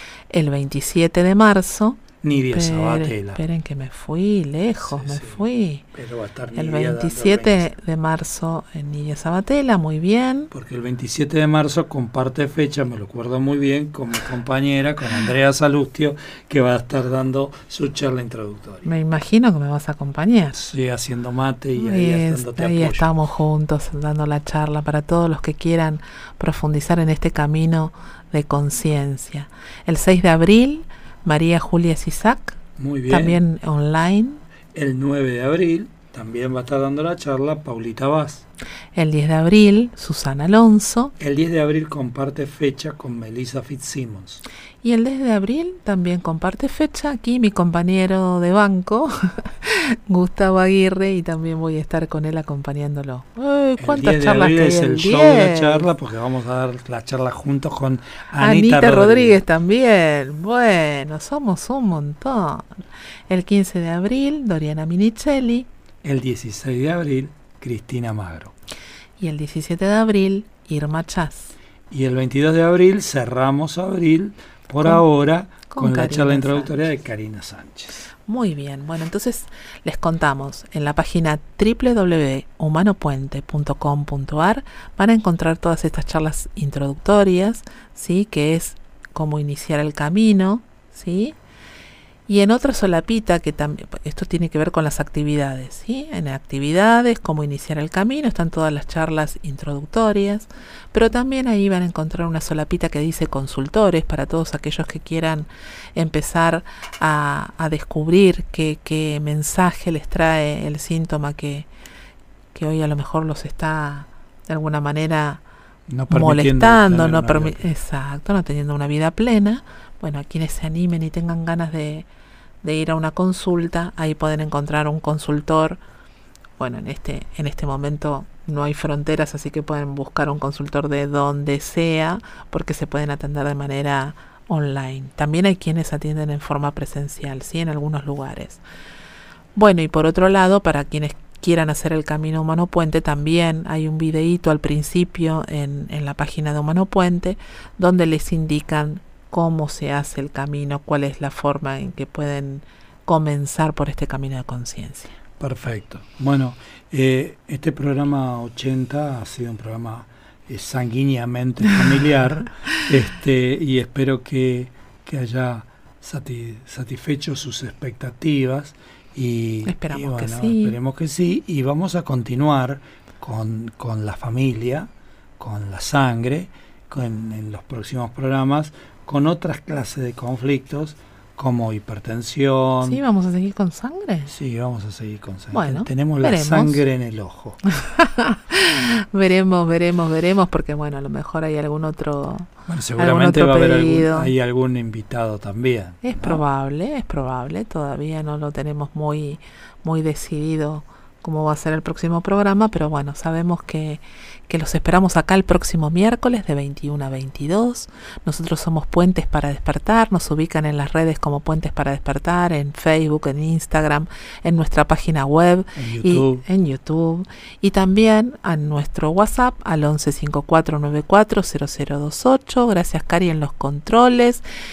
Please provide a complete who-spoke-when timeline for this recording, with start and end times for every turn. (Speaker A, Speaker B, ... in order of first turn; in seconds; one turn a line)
Speaker A: 0.3-5.8
Speaker B: 2.2-3.4
Speaker B: 4.8-5.4
Speaker B: 5.9-7.7
Speaker A: 6.5-10.5
Speaker B: 10.5-18.9
Speaker A: 18.8-20.6
Speaker B: 20.5-23.1
Speaker A: 21.8-34.4
Speaker B: 32.8-33.4
Speaker B: 34.7-38.4
Speaker A: 38.9-41.1
Speaker B: 41.2-44.4
Speaker A: 44.8-55.9
Speaker B: 53.8-59.4
Speaker A: 58.4-62.7
Speaker A: 63.3-65.7
Speaker B: 66.0-68.5
Speaker A: 69.2-71.5
Speaker B: 71.9-78.1
Speaker A: 75.7-76.7
Speaker A: 78.3-91.3
Speaker A: 92.3-111.7
Speaker A: 112.5-115.4
Speaker B: 115.9-117.7
Speaker A: 116.1-122.0
Speaker A: 122.6-125.8
Speaker A: 126.6-138.6
Speaker A: 139.6-155.1
Speaker B: 155.4-183.0
Speaker A: 169.6-170.7
Speaker A: 182.8-184.3
Speaker B: 184.3-187.6
Speaker A: 185.5-186.8
Speaker A: 187.8-194.3
Speaker B: 192.7-196.4
Speaker A: 196.0-224.4
Speaker B: 215.7-216.4